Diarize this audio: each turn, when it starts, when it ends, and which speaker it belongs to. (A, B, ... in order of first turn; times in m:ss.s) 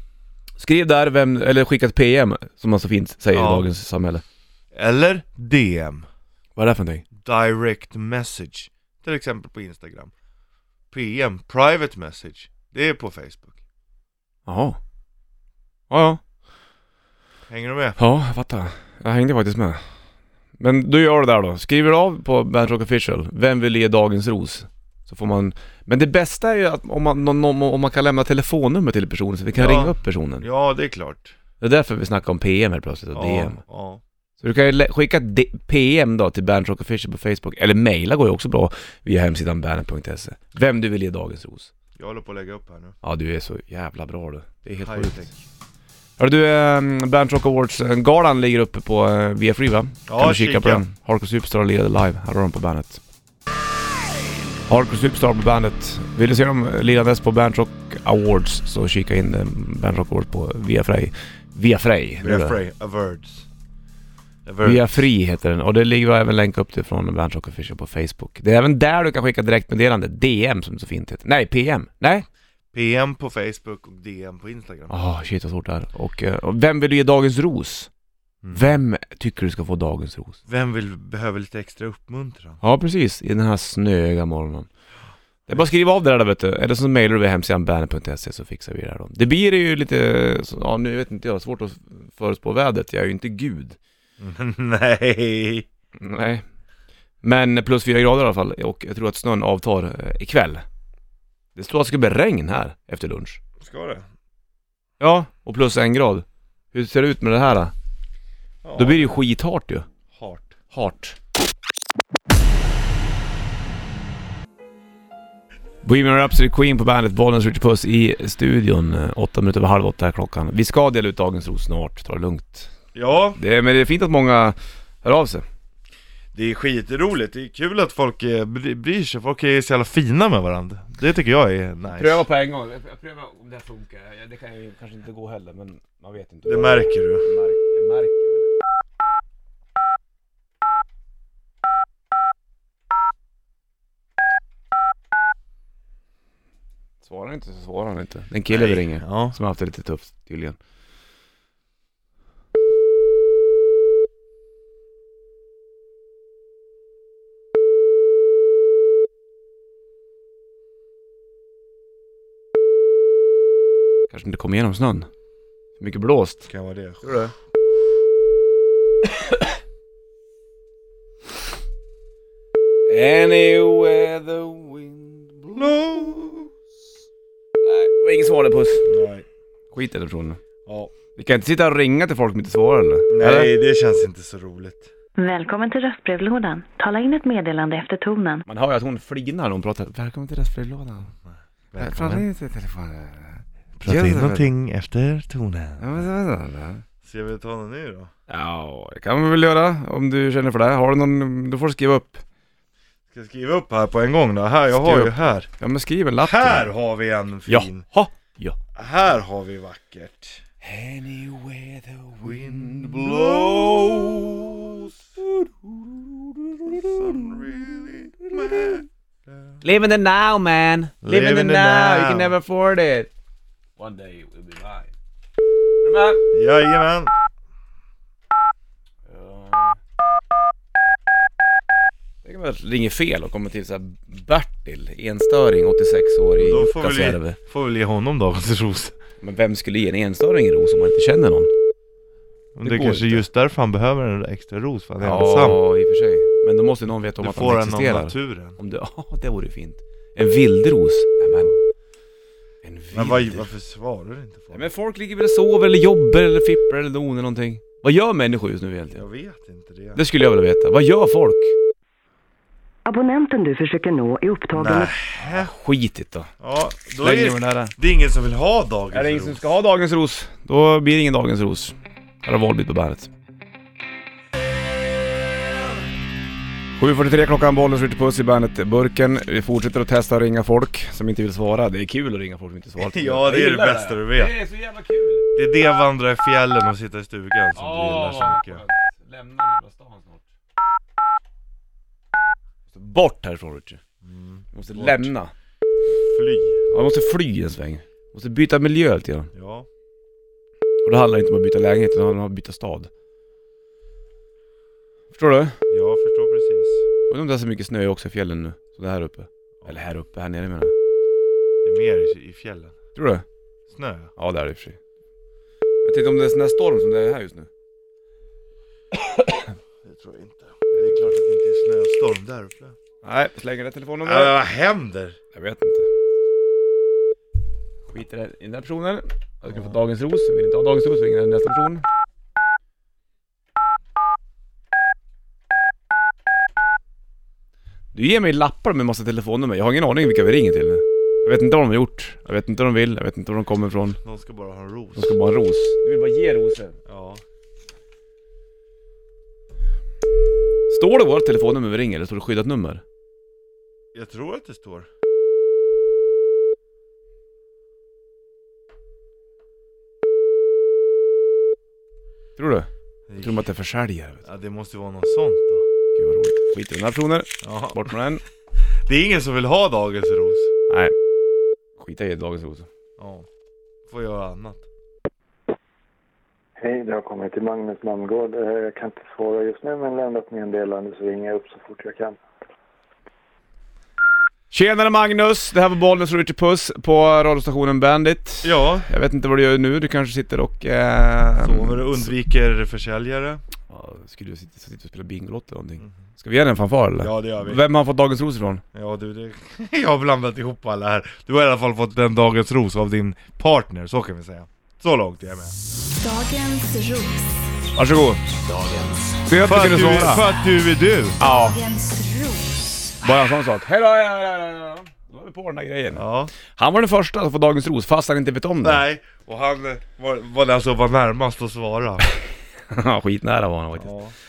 0:00.6-0:04.2 A
0:03.3-0:03.7 B
0:04.7-0:06.1 B
0:06.6-0:07.0 A
0:07.2-0:10.1 B
0:10.9-0:13.6 B
0:14.5-0:14.8 A
0:15.9-0:16.2 A
0:17.5-0:18.0 B
0:18.0-0:19.8 A
0:20.6-0:30.5 A
0:29.6-0:31.3 B
0:31.6-0:33.6 A
0:33.1-0:34.0 B
0:34.4-0:41.7 A
0:42.0-0:43.0 B
0:43.0-0:45.3 A
0:44.8-0:45.3 B
0:46.2-0:53.0 A
0:50.1-0:50.8 B
0:54.7-1:02.6 A
1:02.2-1:03.5 B
1:04.4-1:04.9 B
1:04.6-1:12.3 A
1:12.7-1:14.9 B
1:14.9-1:17.9 A
1:18.4-1:18.7 B
1:18.5-1:20.4 A
1:20.5-1:22.6 B
1:22.6-1:24.7 A
1:25.5-1:33.8 A
1:34.2-1:35.7 B
1:36.0-1:36.4 A
1:37.2-1:40.6 A
1:41.6-1:43.4 A
1:43.6-1:44.1 B
1:45.0-1:47.7 A
1:48.6-1:49.2 B
1:48.8-1:49.9 A
1:50.1-1:50.6 B
1:50.7-1:51.2 A
1:55.8-2:02.7 A
2:03.0-2:03.4 B
2:03.4-2:05.4 A
2:06.3-2:12.2 B
2:11.9-2:18.5 A
2:16.5-2:17.3 B
2:27.0-2:30.6 A
2:28.5-2:29.4 B
2:44.1-2:45.1 A
2:45.8-2:46.5 A
2:46.5-2:47.2 B
2:47.0-2:47.3 A
2:49.0-2:49.5 A
2:52.9-2:55.7 A
2:55.6-2:56.5 B
2:57.6-2:58.8 A
2:58.8-2:59.2 B
2:59.7-3:00.4 A
3:00.7-3:00.9 B
3:01.2-3:03.5 A
3:03.1-3:04.9 B
3:05.2-3:08.4 C
3:08.5-3:11.1 A
3:11.7-3:12.3 B
3:11.8-3:14.5 A
3:13.8-3:16.0 B
3:15.8-3:16.8 A
3:17.0-3:18.1 B
3:18.3-3:22.2 A
3:23.1-3:25.5 B
3:24.7-3:26.7 A
3:26.2-3:27.9 B
3:27.5-3:28.6 A
3:28.8-3:30.4 B
3:30.6-3:37.4 A
3:32.2-3:34.9 B
3:36.7-3:39.5 B
3:38.4-3:38.7 A
3:39.6-3:43.1 A
3:41.0-3:42.4 B
3:43.8-3:44.9 A
3:45.8-3:46.2 A
3:46.3-3:47.1 B
3:49.1-3:49.8 A
3:52.2-3:57.4 A
3:56.4-3:59.0 B
3:59.2-4:01.5 A
4:02.6-4:05.6 B
4:02.6-4:03.2 A
4:05.0-4:11.5 A
4:07.2-4:08.6 B
4:12.6-4:13.5 A
4:12.9-4:14.7 B
4:14.5-4:19.0 A
4:19.0-4:20.0 B
4:20.0-4:21.6 A
4:22.9-4:25.0 C
4:24.5-4:25.5 B
4:25.1-4:26.3 A
4:26.4-4:29.4 B
4:27.0-4:27.7 A
4:28.9-4:33.1 A
4:36.8-4:45.3 A
4:42.8-4:44.3 B
4:45.4-4:48.6 B
4:47.6-4:50.2 A
4:52.7-4:53.8 A
4:54.0-4:55.1 B
4:54.5-4:55.3 A
4:56.0-4:56.6 B
4:56.7-4:59.3 A
4:59.3-4:59.7 B
5:00.8-5:02.9 A
5:05.1-5:05.6 A
5:05.7-5:06.9 B
5:07.1-5:10.8 A
5:11.6-5:12.8 B
5:13.0-5:13.2 A
5:13.7-5:14.1 B
5:14.2-5:14.8 A
5:15.8-5:17.5 A
5:19.1-5:19.4 A
5:19.8-5:22.8 B
5:23.0-5:24.4 A
5:24.0-5:25.2 B
5:25.3-5:25.9 A
5:27.9-5:31.8 A
5:37.9-5:44.0 A
5:44.0-5:45.2 B
5:45.0-5:46.8 A
5:46.9-5:47.2 B
5:50.7-5:52.8 A
5:53.9-5:54.9 B
6:02.4-6:02.7 A
6:03.1-6:03.4 B
6:03.2-6:04.3 A
6:04.2-6:05.7 B
6:06.0-6:08.2 A
6:07.4-6:07.9 B
6:08.8-6:10.5 B
6:10.7-6:10.9 A
6:11.8-6:12.7 A
6:13.0-6:13.3 B
6:13.9-6:14.6 B
6:16.6-6:22.2 D
6:24.5-6:32.1 A
6:28.4-6:28.9 B
6:31.4-6:33.4 B
6:33.7-6:38.6 A
6:37.0-6:37.6 B
6:38.7-6:45.6 B
6:46.0-6:47.2 E
6:47.8-6:48.2 A
6:49.2-6:50.3 A
6:49.4-6:51.2 B
6:51.2-6:51.6 A
6:51.2-6:52.4 E
6:53.0-6:58.8 A
6:56.0-6:56.3 B
6:58.6-7:02.0 B
7:02.7-7:03.9 A
7:03.8-7:04.1 B